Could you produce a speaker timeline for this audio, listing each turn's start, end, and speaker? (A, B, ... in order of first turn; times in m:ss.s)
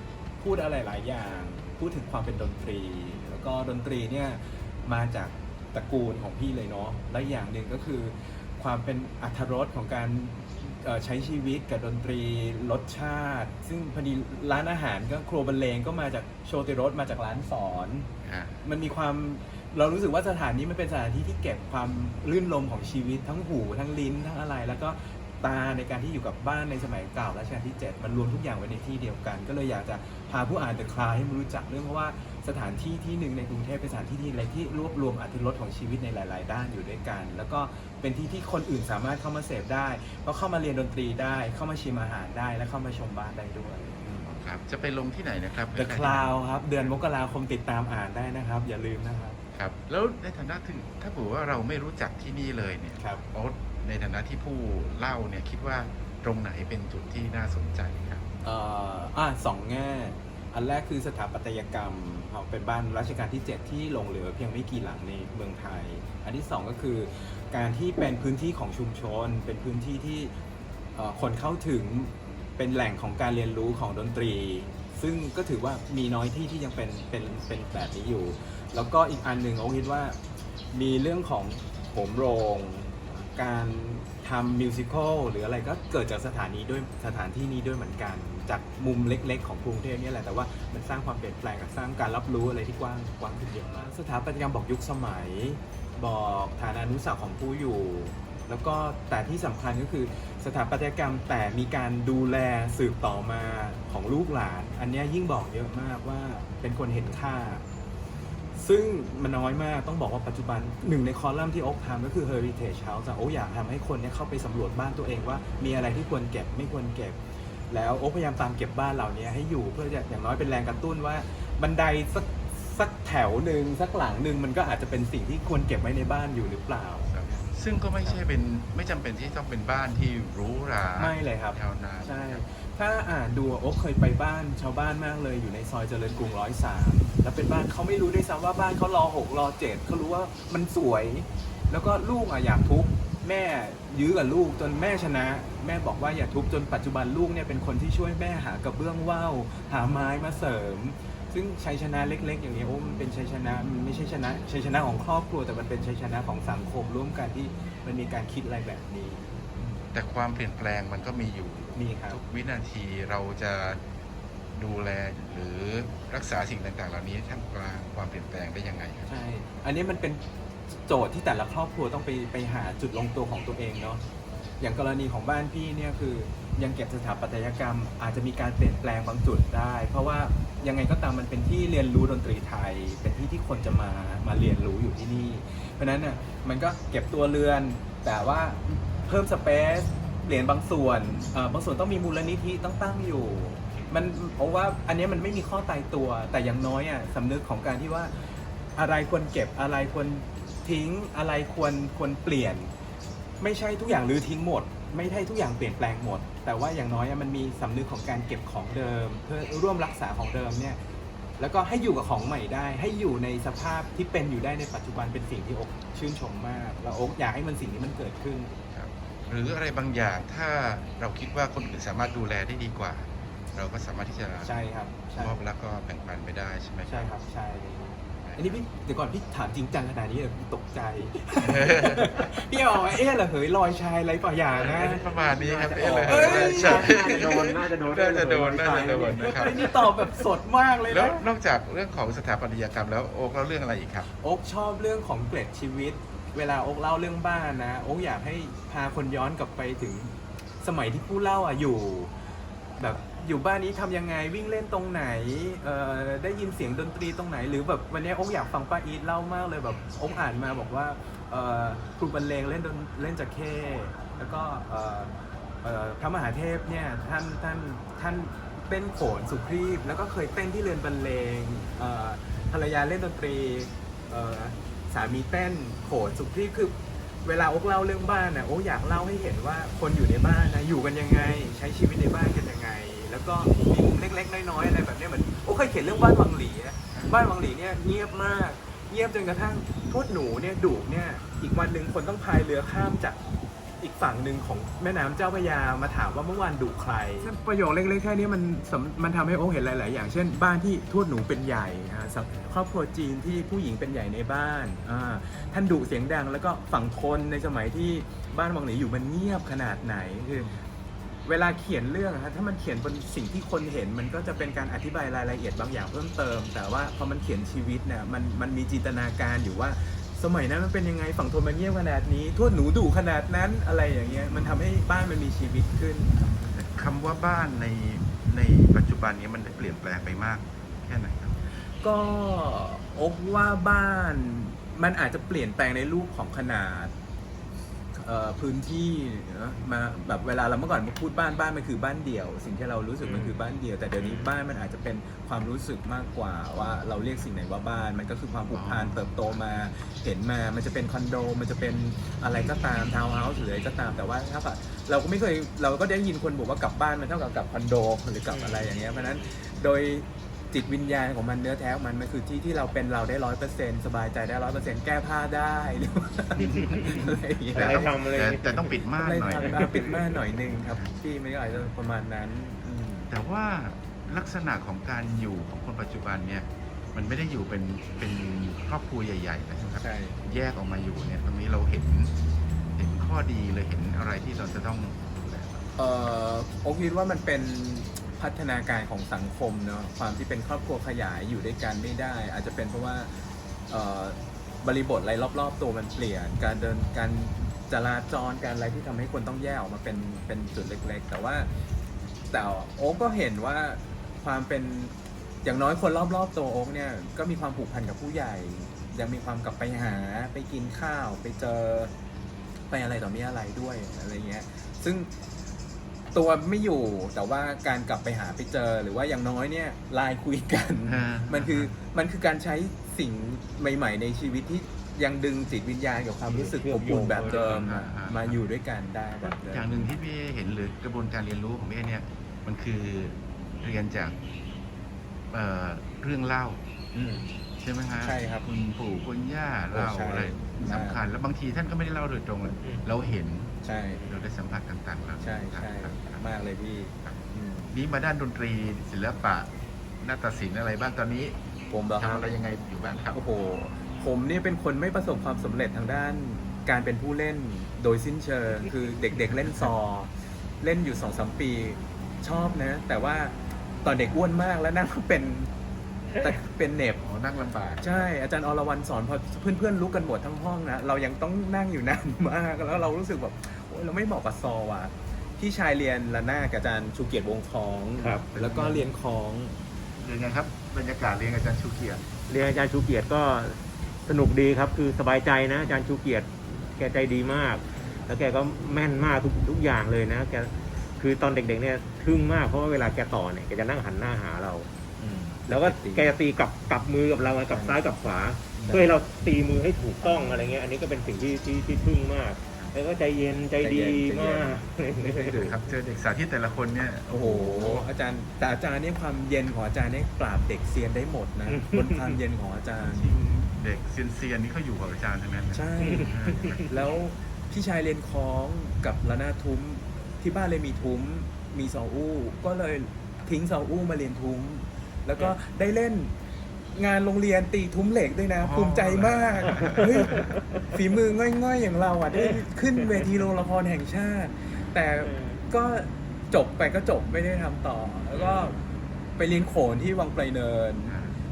0:00.4-0:18.1 A
0:18.2-0:18.6 B
0:18.6-0:44.2 A
0:44.1-0:46.3 B
0:45.7-0:49.4 A
0:49.5-0:58.2 B
0:53.0-0:53.2 A
0:58.4-1:10.3 A
1:10.9-1:20.2 A
1:20.7-1:47.6 A
1:48.6-1:57.2 A
1:57.7-2:07.4 A
2:07.1-2:12.4 B
2:11.0-2:39.8 A
2:39.9-2:43.8 B
2:41.7-2:42.2 A
2:44.5-2:49.1 B
2:49.1-2:50.2 A
2:50.7-2:54.0 A
2:54.6-3:18.1 A
3:18.8-3:22.7 A
3:23.4-3:30.8 A
3:31.4-3:38.5 A
3:38.7-3:44.5 B
3:44.4-3:45.4 A
3:45.1-3:47.1 B
3:46.9-3:57.1 A
3:48.2-3:48.6 B
3:51.4-3:52.2 B
3:54.5-4:00.3 B
3:55.7-3:59.7 C
3:59.1-4:01.3 A
4:00.9-4:04.1 B
4:04.2-4:12.1 A
4:12.8-4:25.1 A
4:25.6-4:53.2 A
4:46.9-4:47.2 B
4:53.8-5:10.5 A
5:11.2-5:26.3 A
5:26.4-5:31.4 B
5:31.8-5:36.9 A
5:37.9-6:08.0 A
5:43.0-5:43.4 C
5:44.0-5:44.3 C
5:48.5-5:49.4 B
5:58.3-5:59.0 C
6:06.4-6:10.0 C
6:06.7-6:09.9 B
6:08.9-6:13.1 A
6:13.1-6:22.1 B
6:19.8-6:20.2 A
6:22.7-6:25.7 B
6:25.8-6:33.1 A
6:33.7-6:41.5 A
6:42.3-6:51.9 A
6:52.7-6:55.1 A
6:56.1-7:09.9 A
7:00.8-7:01.7 B
7:06.2-7:07.7 C
7:07.1-7:08.4 B
7:09.2-7:14.2 B
7:15.3-7:16.6 B
7:16.9-7:17.3 A
7:17.6-7:26.2 B
7:18.0-7:18.4 A
7:19.7-7:21.0 A
7:23.6-7:24.1 A
7:25.2-7:27.7 A
7:27.7-7:31.4 B
7:31.7-7:32.4 A
7:31.9-7:33.2 B
7:33.1-7:45.5 A
7:46.1-7:47.0 A
7:47.0-7:48.1 B
7:47.8-7:59.6 A
7:58.0-7:58.3 C
7:58.3-7:58.9 B
8:00.0-8:02.0 B
8:02.3-8:14.7 C
8:15.0-8:16.2 A
8:15.5-8:25.4 C
8:17.5-8:17.8 A
8:18.6-8:18.9 A
8:20.0-8:20.5 A
8:23.6-8:25.6 A
8:25.3-8:27.9 B
8:27.1-8:33.1 A
8:31.5-8:32.2 C
8:32.8-8:36.7 B
8:35.5-8:46.1 A
8:35.8-8:36.6 C
8:46.7-8:58.6 A
8:48.4-8:50.3 B
8:49.7-8:50.8 C
8:52.1-8:53.1 C
8:55.0-8:55.4 C
8:58.1-8:58.6 C
8:59.2-9:01.0 A
9:00.9-9:01.2 B